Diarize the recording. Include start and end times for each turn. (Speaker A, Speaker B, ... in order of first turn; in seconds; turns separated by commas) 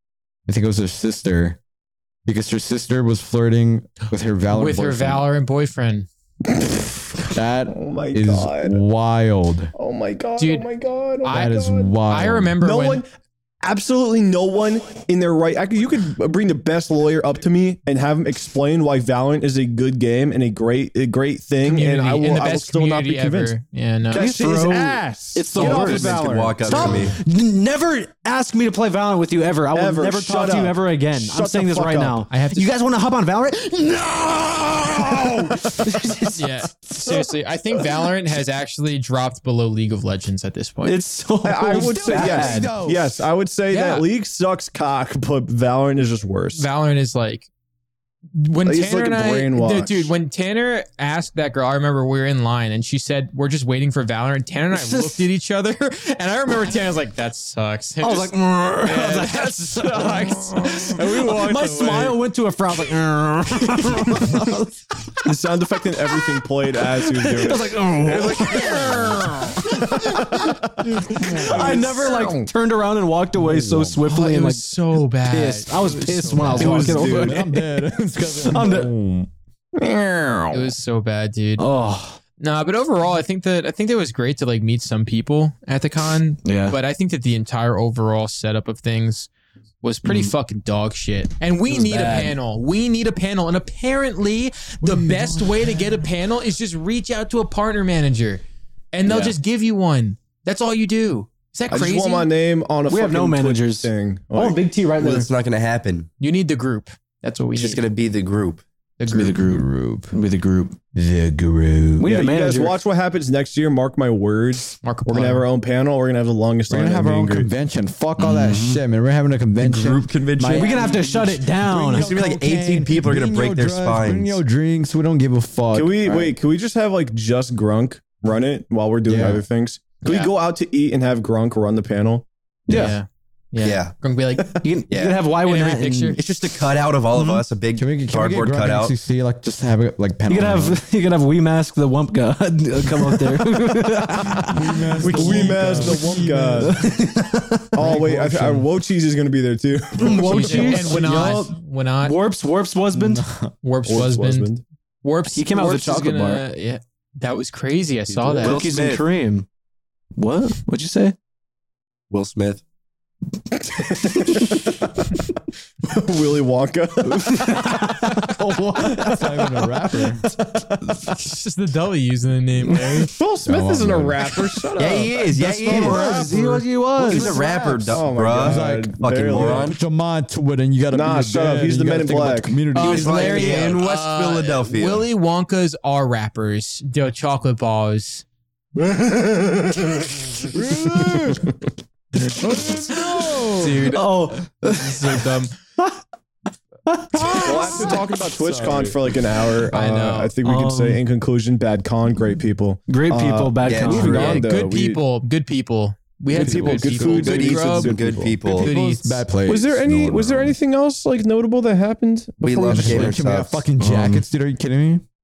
Speaker A: 0.5-1.6, Speaker A: 2.2-5.2, Speaker B: 4.5-6.1, Speaker C: 6.5-6.8, Speaker A: 7.3-9.7, Speaker C: 7.7-8.8, Speaker C: 9.7-11.9, Speaker B: 10.4-10.7, Speaker B: 11.2-13.0, Speaker A: 11.3-12.5, Speaker C: 12.6-13.1, Speaker C: 13.6-23.5, Speaker B: 21.6-24.3, Speaker C: 24.1-27.1, Speaker D: 24.1-37.2, Speaker E: 25.5-27.1, Speaker C: 29.7-32.3, Speaker B: 32.3-32.7, Speaker B: 36.4-41.0, Speaker D: 40.8-42.7, Speaker C: 41.4-46.6, Speaker A: 41.7-43.1, Speaker B: 43.7-44.1, Speaker B: 46.5-47.5, Speaker B: 48.4-62.2, Speaker C: 48.6-50.1, Speaker D: 54.7-55.2, Speaker D: 58.0-65.2, Speaker C: 65.2-72.5, Speaker D: 66.8-77.7, Speaker B: 71.2-72.0, Speaker A: 73.3-74.0, Speaker B: 74.0-77.0, Speaker C: 76.6-77.5, Speaker A: 76.6-79.3, Speaker D: 78.4-78.9, Speaker C: 79.8-80.7, Speaker B: 80.5-81.7, Speaker D: 81.6-82.2, Speaker B: 82.4-89.3, Speaker D: 86.4-86.8, Speaker B: 89.8-98.4, Speaker D: 90.0-90.3, Speaker D: 91.7-92.3, Speaker A: 94.8-95.5, Speaker B: 98.9-102.3, Speaker D: 99.0-99.3, Speaker C: 101.7-104.6, Speaker D: 102.9-105.3, Speaker E: 105.0-106.1, Speaker B: 106.2-107.8, Speaker E: 107.5-108.6, Speaker B: 109.0-109.4, Speaker D: 109.1-110.8, Speaker A: 109.4-110.1, Speaker A: 110.9-112.1, Speaker D: 112.0-112.8, Speaker C: 112.0-117.5, Speaker B: 114.8-115.5, Speaker A: 116.7-126.3, Speaker E: 118.2-118.8, Speaker E: 119.6-121.0, Speaker D: 120.5-122.1, Speaker E: 121.9-124.4, Speaker C: 125.7-132.9, Speaker A: 129.1-129.4, Speaker B: 130.0-130.3, Speaker D: 132.7-133.0, Speaker B: 132.7-134.5, Speaker E: 133.6-133.9, Speaker D: 134.6-136.2, Speaker E: 134.9-135.2, Speaker B: 135.4-136.2, Speaker E: 136.2-138.9, Speaker D: 137.1-137.4, Speaker A: 137.8-140.8, Speaker D: 140.3-147.7, Speaker A: 144.5-146.8, Speaker C: 144.9-146.8, Speaker C: 147.7-151.2, Speaker A: 147.8-148.7, Speaker D: 150.0-153.2, Speaker B: 150.3-152.2, Speaker A: 152.9-153.5, Speaker B: 153.6-158.6, Speaker C: 153.8-154.6, Speaker D: 155.3-156.4, Speaker C: 158.1-158.4, Speaker E: 158.4-159.0, Speaker D: 158.4-159.4, Speaker D: 160.2-161.1, Speaker E: 162.1-162.6, Speaker C: 163.6-165.0, Speaker C: 165.8-171.2, Speaker D: 167.3-168.3, Speaker A: 168.3-170.2, Speaker B: 171.1-173.1, Speaker C: 173.0-179.8, Speaker A: 173.4-174.2, Speaker E: 174.8-176.3, Speaker D: 175.6-177.4, Speaker A: 175.6-176.3, Speaker E: 177.0-179.8, Speaker A: 177.0-183.7, Speaker C: 180.9-182.7, Speaker E: 182.7-185.1, Speaker B: 182.7-188.2, Speaker D: 188.8-189.8, Speaker A: 190.5-191.5, Speaker C: 190.8-191.3, Speaker D: 190.9-191.2, Speaker A: 192.4-193.9, Speaker B: 192.9-195.5, Speaker D: 193.9-196.0, Speaker D: 196.8-198.2, Speaker C: 197.3-205.0, Speaker A: 197.4-199.0, Speaker B: 199.7-200.3, Speaker D: 200.4-201.0, Speaker D: 202.9-204.5, Speaker E: 203.6-204.4, Speaker B: 203.9-207.9, Speaker C: 206.3-208.4, Speaker A: 206.3-207.5, Speaker E: 207.0-208.7, Speaker A: 208.3-210.6, Speaker B: 208.6-209.2, Speaker C: 209.4-213.2, Speaker E: 212.4-213.6, Speaker A: 212.7-215.0, Speaker D: 213.8-214.2